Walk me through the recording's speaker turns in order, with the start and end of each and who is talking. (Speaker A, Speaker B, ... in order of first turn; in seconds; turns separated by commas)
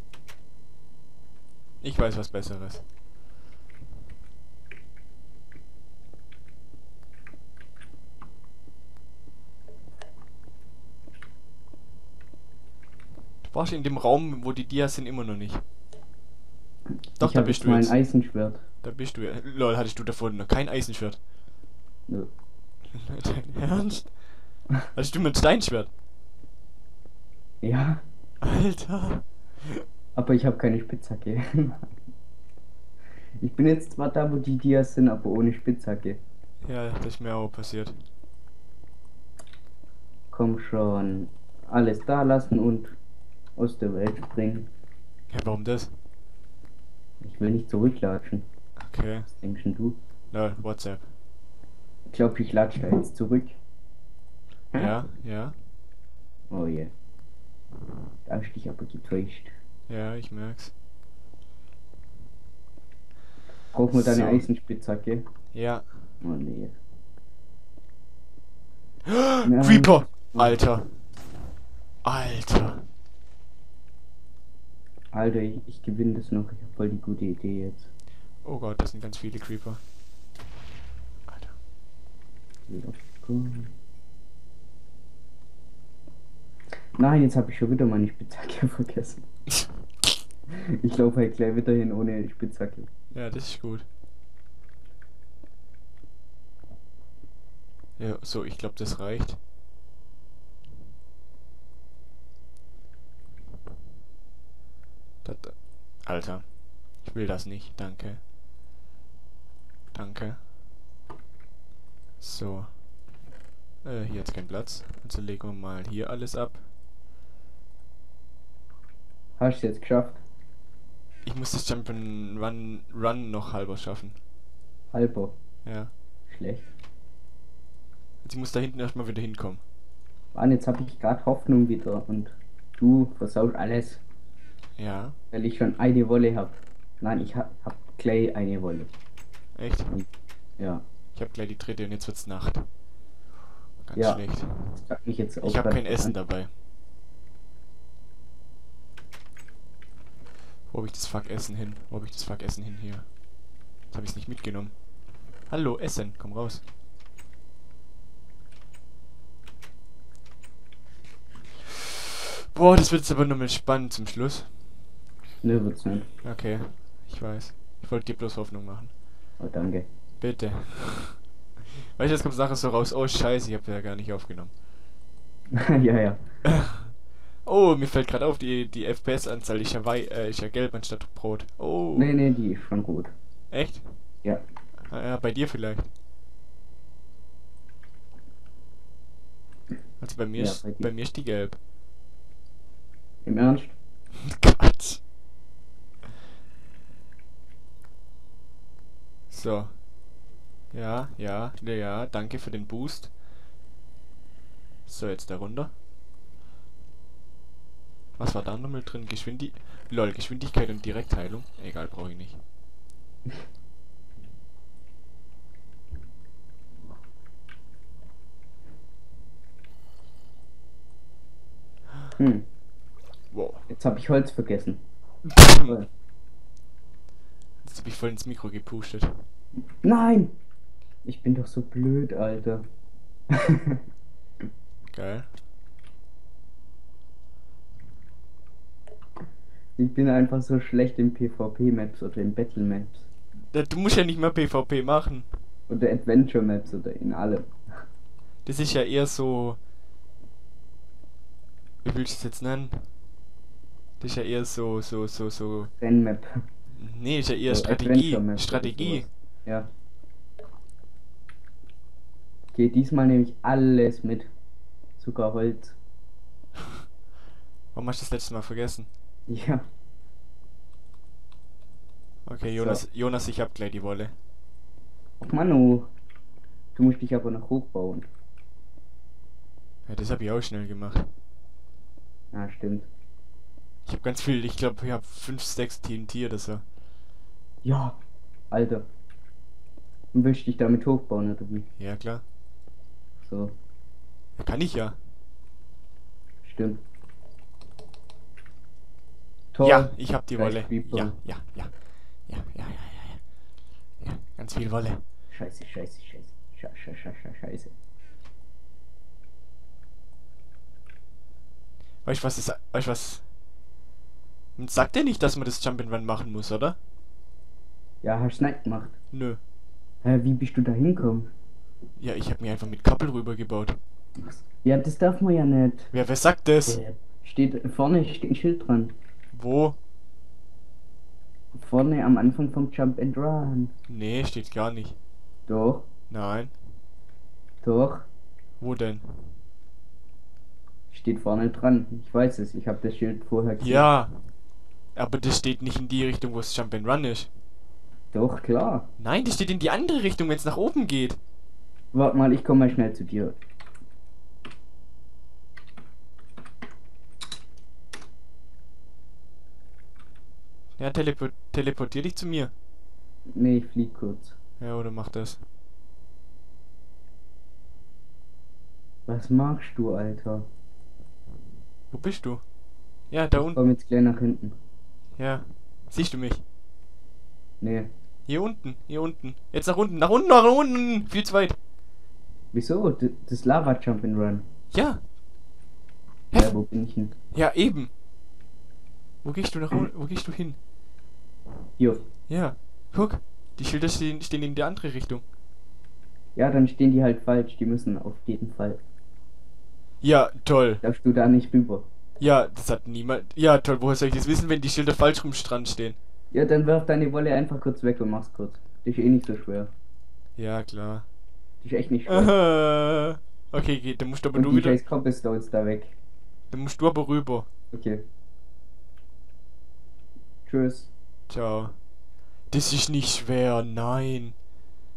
Speaker A: 1.8-2.8, Speaker A: 13.4-15.6, Speaker A: 17.2-17.9, Speaker B: 17.2-18.6, Speaker A: 18.8-21.2, Speaker A: 22.9-24.2, Speaker A: 24.9-25.9, Speaker B: 27.6-28.0, Speaker A: 28.4-29.8, Speaker B: 30.1-31.9, Speaker B: 33.4-36.2, Speaker A: 36.6-37.9, Speaker B: 40.3-43.0, Speaker B: 43.6-44.7, Speaker A: 45.3-45.9, Speaker B: 47.2-48.4, Speaker A: 48.8-49.3, Speaker B: 49.4-50.0, Speaker A: 50.3-51.0, Speaker B: 52.1-53.6, Speaker A: 54.7-55.5, Speaker B: 56.5-56.9, Speaker B: 58.3-59.5, Speaker A: 59.9-60.7, Speaker B: 63.7-65.2, Speaker A: 63.9-64.5, Speaker A: 65.5-65.8, Speaker B: 66.2-66.8, Speaker A: 69.0-70.9, Speaker B: 69.4-70.6, Speaker A: 72.0-72.9, Speaker B: 75.1-77.9, Speaker A: 78.4-79.8, Speaker A: 81.3-81.5, Speaker B: 82.7-83.7, Speaker B: 87.0-89.2, Speaker B: 90.5-92.9, Speaker A: 93.1-93.8, Speaker A: 98.0-99.4, Speaker A: 105.2-108.2, Speaker A: 109.9-110.4, Speaker A: 112.2-112.7, Speaker A: 113.8-116.6, Speaker B: 119.4-120.2, Speaker A: 121.2-124.2, Speaker B: 124.9-125.4, Speaker A: 125.6-125.9, Speaker B: 126.3-126.7, Speaker A: 128.2-129.6, Speaker B: 130.3-134.0, Speaker A: 134.8-135.1, Speaker B: 135.3-138.9, Speaker A: 139.5-139.9, Speaker A: 141.1-142.7, Speaker A: 143.8-144.8, Speaker B: 143.9-146.1, Speaker A: 145.4-146.5, Speaker A: 150.7-153.1, Speaker A: 153.9-154.8, Speaker A: 155.5-156.6, Speaker A: 162.5-164.5, Speaker B: 165.4-166.1, Speaker A: 166.2-168.9, Speaker B: 169.4-169.9, Speaker A: 170.2-174.5, Speaker B: 175.5-176.2, Speaker A: 176.4-176.9, Speaker A: 177.4-182.1, Speaker B: 181.9-183.1, Speaker A: 183.5-183.8, Speaker A: 184.8-185.9, Speaker A: 190.0-191.6, Speaker B: 190.4-190.9, Speaker B: 193.2-193.8, Speaker A: 194.2-195.0, Speaker A: 199.3-199.8, Speaker A: 200.7-203.1, Speaker A: 204.9-205.7, Speaker A: 208.2-212.4, Speaker B: 222.2-222.4, Speaker A: 223.3-223.6, Speaker B: 223.7-224.8, Speaker A: 225.2-225.8, Speaker A: 227.6-229.2, Speaker B: 229.8-230.3, Speaker B: 231.0-232.6, Speaker B: 233.3-233.8, Speaker A: 234.9-235.3, Speaker B: 239.8-243.1, Speaker A: 243.5-245.3, Speaker B: 245.7-247.5, Speaker A: 248.4-249.6, Speaker A: 251.8-252.9, Speaker A: 254.0-255.7, Speaker B: 255.6-256.4, Speaker A: 256.8-259.1, Speaker B: 257.5-259.7, Speaker B: 262.5-264.3, Speaker B: 265.0-265.8, Speaker A: 267.7-268.9, Speaker B: 269.3-269.6, Speaker A: 272.2-274.1, Speaker B: 272.5-272.8, Speaker B: 275.2-275.9, Speaker B: 276.7-278.1, Speaker A: 279.9-281.1, Speaker B: 282.3-282.9, Speaker A: 283.9-286.6, Speaker B: 287.6-288.0, Speaker B: 288.5-288.8, Speaker B: 290.1-291.7, Speaker A: 291.8-292.2, Speaker B: 293.2-293.5, Speaker A: 294.4-295.0, Speaker B: 296.4-296.8, Speaker B: 299.5-301.1, Speaker A: 299.6-301.7, Speaker A: 302.2-303.2, Speaker A: 304.0-305.0, Speaker B: 305.3-307.7, Speaker A: 312.0-313.2, Speaker A: 314.6-316.8, Speaker B: 318.0-318.9, Speaker A: 319.1-319.4, Speaker B: 320.0-321.3, Speaker A: 322.0-323.8, Speaker B: 324.2-325.9, Speaker A: 325.9-326.8, Speaker B: 326.6-328.9, Speaker A: 329.3-329.8, Speaker B: 331.5-333.7, Speaker A: 333.9-335.0, Speaker B: 335.5-335.9, Speaker A: 336.1-336.5, Speaker B: 337.6-338.1, Speaker A: 338.6-339.3, Speaker B: 340.9-343.9, Speaker A: 343.6-344.2, Speaker A: 344.9-347.3, Speaker B: 348.1-348.9, Speaker A: 349.0-351.2, Speaker B: 351.9-353.4, Speaker A: 360.8-362.5, Speaker B: 363.3-364.4, Speaker A: 364.6-365.4, Speaker B: 369.1-370.5, Speaker A: 371.9-372.4, Speaker A: 373.1-373.6, Speaker B: 373.4-374.6, Speaker A: 375.2-376.4, Speaker B: 377.6-377.9, Speaker A: 378.3-381.6, Speaker B: 382.5-384.4, Speaker A: 384.7-385.0, Speaker A: 386.3-386.6, Speaker B: 386.3-387.1, Speaker A: 387.3-387.9, Speaker A: 389.2-390.6, Speaker B: 391.8-392.0, Speaker A: 392.3-395.2, Speaker B: 396.4-398.8, Speaker A: 400.0-400.8, Speaker B: 400.8-401.9, Speaker A: 402.2-406.0, Speaker B: 406.3-409.7, Speaker A: 410.4-411.1, Speaker B: 411.6-412.3, Speaker A: 412.1-414.8, Speaker B: 414.3-415.9, Speaker A: 416.5-417.5, Speaker B: 417.7-418.0, Speaker B: 420.4-420.9, Speaker A: 421.3-421.8, Speaker A: 422.5-424.3